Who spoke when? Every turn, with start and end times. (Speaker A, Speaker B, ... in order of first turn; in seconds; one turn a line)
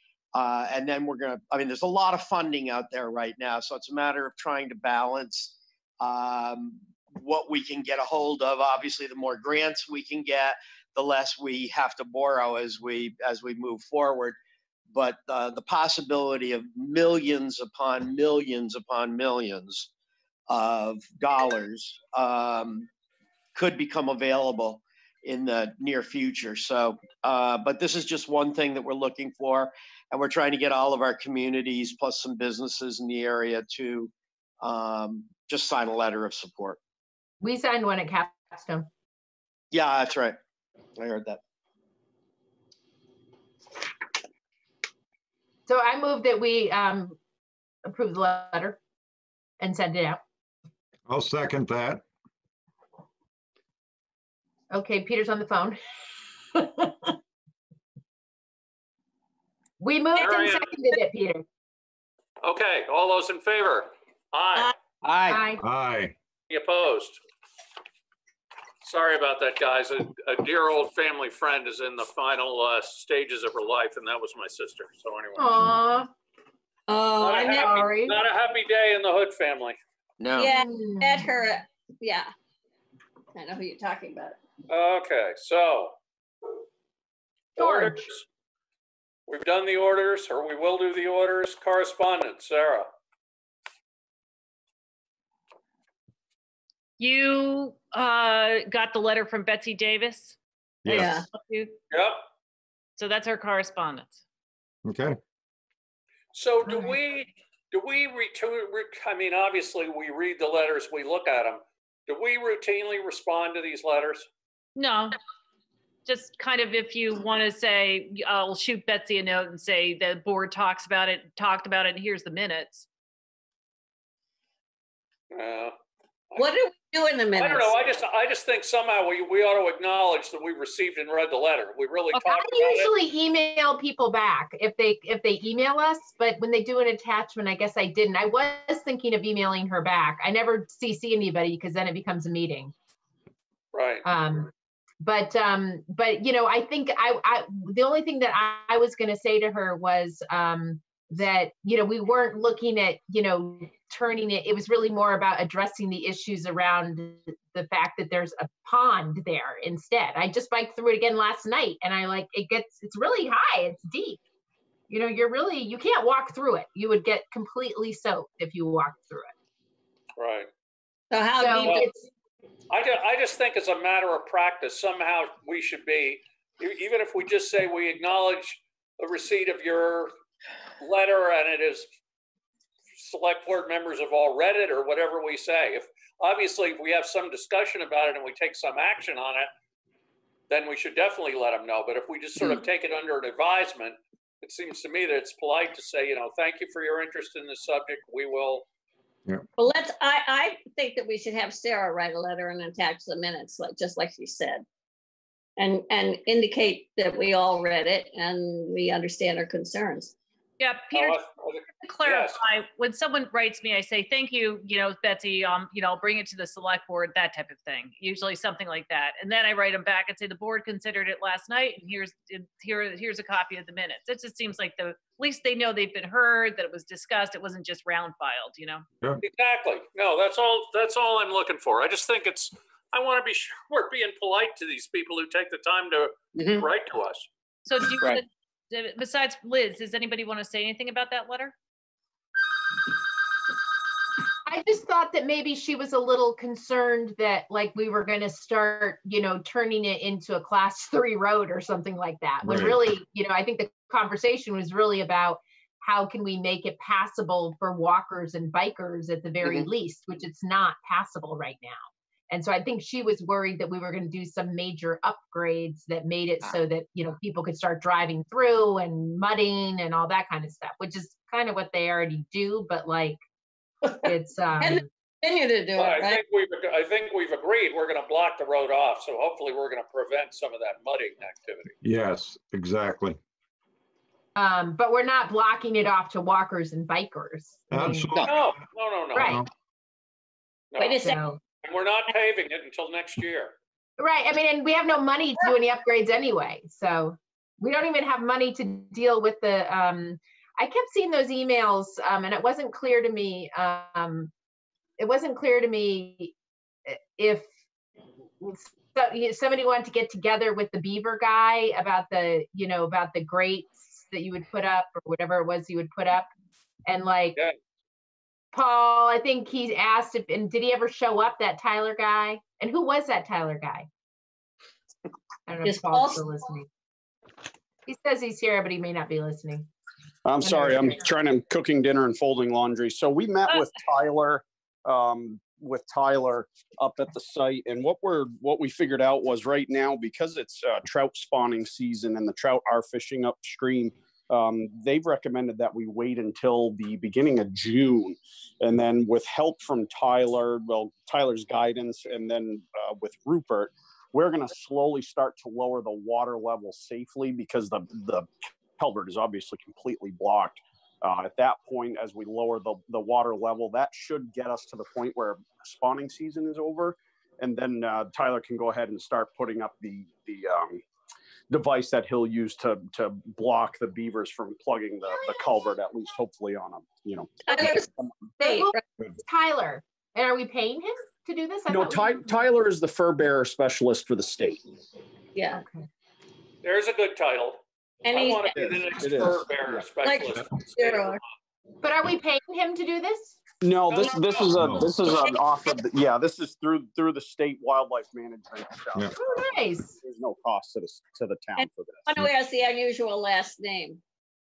Speaker A: 0.3-14.4
Speaker A: 14.9-19.9
Speaker A: 20.5-22.9
Speaker A: 23.6-36.8
Speaker B: 37.4-38.9
Speaker A: 39.7-40.4
Speaker A: 41.0-41.4
Speaker B: 45.7-47.2
Speaker B: 47.9-48.8
Speaker B: 49.6-50.2
Speaker C: 51.1-52.0
Speaker B: 54.7-55.8
Speaker B: 56.5-57.1
Speaker B: 59.8-61.5
Speaker D: 60.1-60.8
Speaker D: 62.4-64.7
Speaker A: 65.0-65.5
Speaker B: 65.3-65.6
Speaker C: 65.6-66.1
Speaker D: 66.5-67.2
Speaker D: 68.8-75.6
Speaker B: 75.4-76.1
Speaker E: 76.9-77.8
Speaker D: 77.2-79.8
Speaker B: 77.5-78.2
Speaker A: 80.2-80.6
Speaker E: 80.4-82.3
Speaker B: 80.5-81.3
Speaker E: 83.3-84.4
Speaker D: 84.7-86.0
Speaker B: 87.6-88.1
Speaker D: 87.6-88.2
Speaker D: 89.3-92.9
Speaker F: 97.0-100.4
Speaker C: 100.8-101.2
Speaker F: 100.9-101.8
Speaker E: 100.9-101.3
Speaker D: 101.9-102.2
Speaker F: 103.0-104.2
Speaker C: 104.9-105.2
Speaker D: 106.3-114.3
Speaker F: 114.8-115.2
Speaker F: 116.1-122.9
Speaker D: 125.3-125.8
Speaker E: 126.4-128.0
Speaker D: 127.3-132.9
Speaker B: 132.1-142.7
Speaker D: 143.7-144.1
Speaker B: 144.1-164.2
Speaker B: 164.9-169.3
Speaker D: 170.2-170.5
Speaker E: 171.1-171.9
Speaker B: 171.4-172.1
Speaker D: 172.7-180.1
Speaker D: 180.8-181.9
Speaker D: 183.0-189.5
Speaker D: 190.5-198.7
Speaker E: 199.6-204.7
Speaker E: 205.6-210.1
Speaker F: 210.6-211.2
Speaker D: 210.9-212.4
Speaker F: 211.8-228.8
Speaker D: 229.2-237.3
Speaker A: 236.3-236.7
Speaker F: 237.7-241.5
Speaker B: 244.5-273.2
Speaker C: 252.4-252.8
Speaker A: 259.4-259.7
Speaker E: 273.9-276.2
Speaker B: 274.0-274.8
Speaker D: 275.8-281.7
Speaker C: 281.8-283.2
Speaker B: 284.4-288.3
Speaker C: 287.7-288.6
Speaker D: 288.2-289.4
Speaker B: 289.1-289.5
Speaker C: 289.2-289.5
Speaker D: 290.7-293.5
Speaker E: 290.8-291.2
Speaker B: 291.0-291.4
Speaker B: 294.0-304.3
Speaker B: 305.0-306.3
Speaker B: 306.9-307.5
Speaker B: 308.4-316.3
Speaker B: 316.9-317.4
Speaker B: 318.5-323.9
Speaker B: 325.5-326.7
Speaker E: 325.6-326.3
Speaker B: 327.9-329.7
Speaker G: 330.2-370.8
Speaker B: 330.4-331.0
Speaker G: 371.5-378.3
Speaker E: 377.5-377.9
Speaker B: 378.4-382.4
Speaker E: 378.4-378.8
Speaker G: 381.7-384.7
Speaker E: 385.4-385.6
Speaker B: 385.5-385.9
Speaker D: 386.6-391.2
Speaker E: 388.1-388.6
Speaker G: 388.2-389.9
Speaker E: 390.0-391.2
Speaker B: 391.8-393.4
Speaker G: 393.6-399.4
Speaker D: 393.9-394.6
Speaker C: 394.6-394.9
Speaker B: 399.2-400.0
Speaker G: 400.0-402.1
Speaker E: 401.6-404.0